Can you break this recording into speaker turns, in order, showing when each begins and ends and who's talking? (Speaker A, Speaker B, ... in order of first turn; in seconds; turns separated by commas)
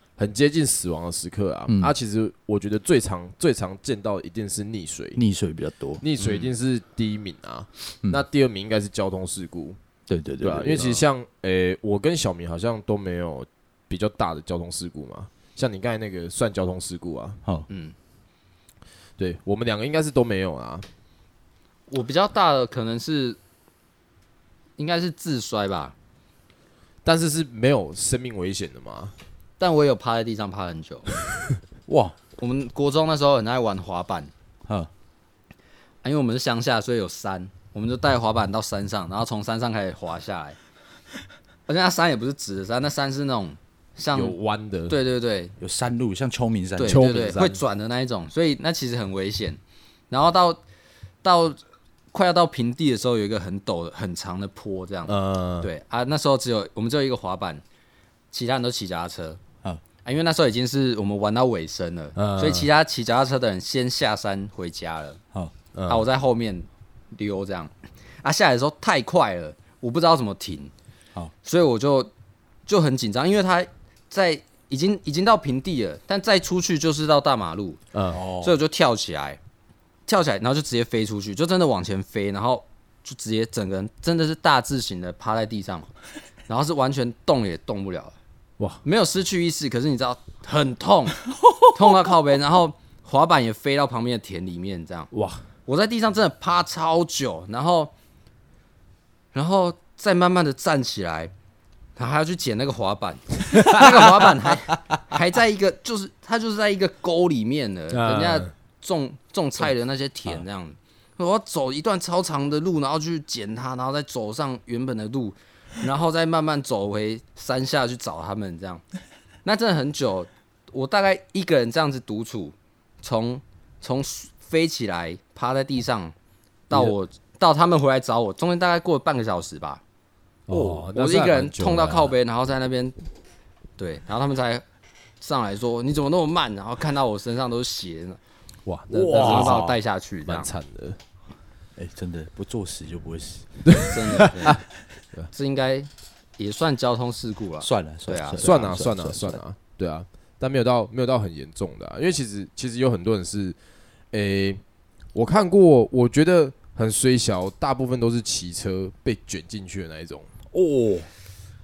Speaker A: 0.2-5.2, Speaker B: 1.7-1.9, Speaker B: 5.2-6.0, Speaker A: 6.0-9.8, Speaker C: 6.2-6.5, Speaker B: 10.1-11.0, Speaker A: 10.4-17.4, Speaker C: 17.7-17.9, Speaker A: 19.2-20.9, Speaker C: 21.9-23.4, Speaker C: 24.8-25.9, Speaker A: 27.0-29.1, Speaker C: 29.6-31.1, Speaker B: 31.9-32.2, Speaker C: 32.4-34.3, Speaker C: 36.0-40.6, Speaker C: 41.7-44.4, Speaker A: 44.1-45.0, Speaker C: 44.9-45.5, Speaker B: 45.6-47.2, Speaker C: 46.8-49.6, Speaker A: 46.9-47.6, Speaker C: 50.1-50.6, Speaker C: 51.2-51.6, Speaker C: 52.1-57.6, Speaker A: 55.1-55.7, Speaker C: 58.3-59.4, Speaker C: 60.0-65.2, Speaker A: 62.2-62.7, Speaker A: 65.7-66.0, Speaker C: 65.9-70.7, Speaker C: 71.4-72.1, Speaker C: 72.7-77.8, Speaker A: 77.9-78.2, Speaker B: 78.1-78.5, Speaker C: 78.4-79.4, Speaker C: 80.1-85.9, Speaker C: 86.5-88.2, Speaker C: 88.8-95.1, Speaker B: 91.4-92.2, Speaker A: 95.1-95.4, Speaker C: 95.7-97.9, Speaker C: 99.3-101.3, Speaker C: 102.0-118.8, Speaker A: 103.5-104.3, Speaker A: 107.9-108.5, Speaker C: 119.4-126.1, Speaker C: 126.7-129.8, Speaker A: 130.5-132.1, Speaker C: 130.5-133.0, Speaker C: 133.8-134.6, Speaker C: 135.2-138.2, Speaker A: 138.7-141.0, Speaker B: 138.9-139.7, Speaker C: 139.1-140.5, Speaker B: 141.8-143.6, Speaker A: 143.6-144.6, Speaker C: 143.9-144.6, Speaker C: 145.3-148.5, Speaker B: 147.6-149.4, Speaker A: 148.4-153.6, Speaker A: 154.1-154.6, Speaker A: 155.1-160.3, Speaker B: 160.5-161.1